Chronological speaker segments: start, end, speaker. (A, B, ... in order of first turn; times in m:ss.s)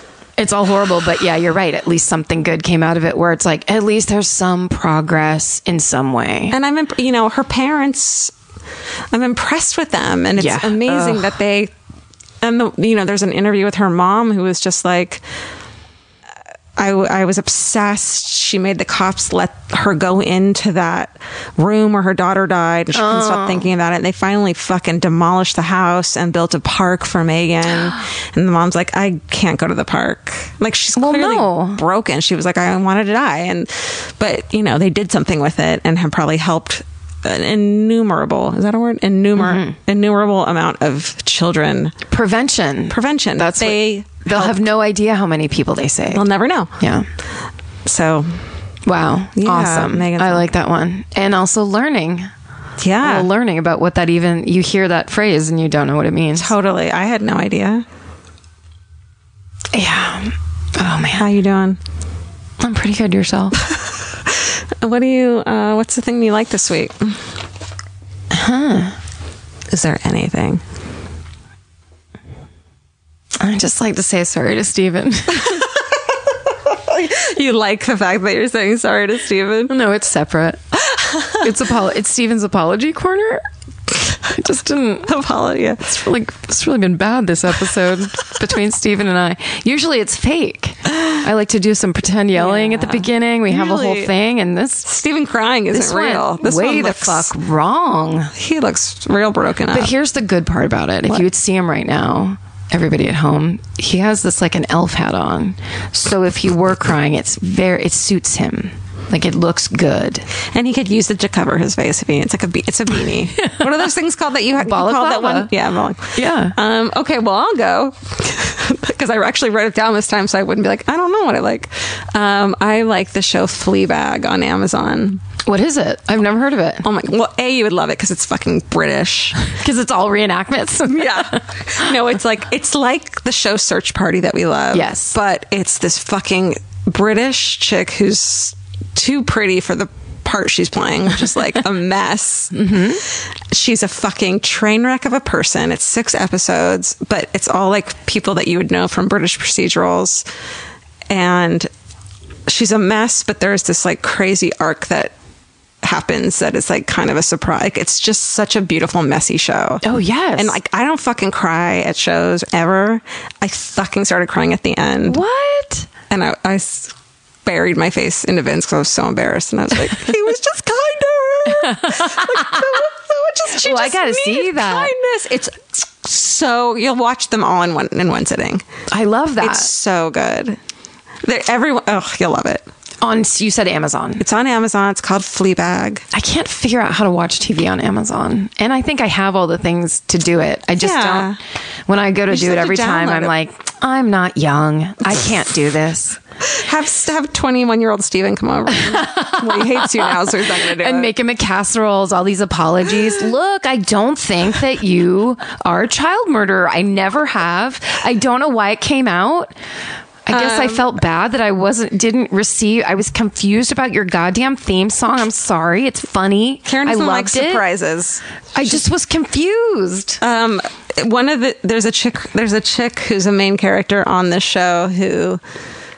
0:00.4-0:06.6 A
0:06.5-0:08.3 B
0:09.1-0:11.7 B
0:10.4-0:11.4 A
0:12.4-0:15.2 B
0:16.8-0:42.0 B
0:22.9-0:23.7 A
0:31.0-0:31.8 A
0:39.4-0:39.8 A
0:42.1-0:46.2 A
0:42.9-0:44.6 B
0:46.1-0:46.8 B
0:46.8-0:47.1 A
0:47.9-0:48.4 B
0:48.9-0:52.3 A
0:49.4-0:50.5 B
0:52.8-0:53.3 B
0:53.0-0:56.5 A
0:56.4-0:57.8 B
0:59.7-1:01.3 A
1:01.1-1:01.8 B
1:02.6-1:03.6 A
1:04.3-1:07.2 B
1:08.3-1:09.0 A
1:09.7-1:10.6 B
1:13.4-1:15.7 A
1:16.6-1:19.7 B
1:19.7-1:20.6 A
1:21.0-1:21.4 B
1:21.3-1:23.4 A
1:24.3-1:25.1 A
1:25.1-1:25.9 B
1:25.8-1:34.9 A
1:32.4-1:34.1 B
1:34.8-1:37.3 B
1:35.7-1:38.3 A
1:38.3-1:39.9 B
1:39.7-1:50.3 A
1:50.5-2:05.2 B
1:54.6-1:55.5 A
1:56.2-1:56.6 A
2:05.4-2:06.8 A
2:06.8-2:09.4 B
2:09.5-2:11.5 A
2:10.9-2:22.7 B
2:14.7-2:15.2 A
2:22.5-2:23.0 A
2:23.5-2:30.2 B
2:31.1-2:31.7 B
2:32.5-2:35.1 B
2:35.8-2:39.8 B
2:39.8-2:40.6 A
2:40.4-2:45.2 B
2:45.1-2:45.9 A
2:46.1-2:46.9 B
2:47.4-2:58.6 B
2:51.8-2:52.5 A
2:53.6-2:54.9 A
2:58.9-2:59.7 A
2:59.4-3:00.6 B
3:01.2-3:02.7 B
3:03.0-3:04.2 A
3:04.2-3:06.1 B
3:06.1-3:11.3 A
3:10.8-3:11.4 B
3:11.9-3:16.2 A
3:12.3-3:13.3 B
3:16.5-3:21.1 B
3:18.8-3:29.5 A
3:30.3-3:37.6 A
3:30.3-3:30.9 B
3:36.7-3:38.2 B
3:38.6-3:40.2 A
3:40.2-3:45.4 B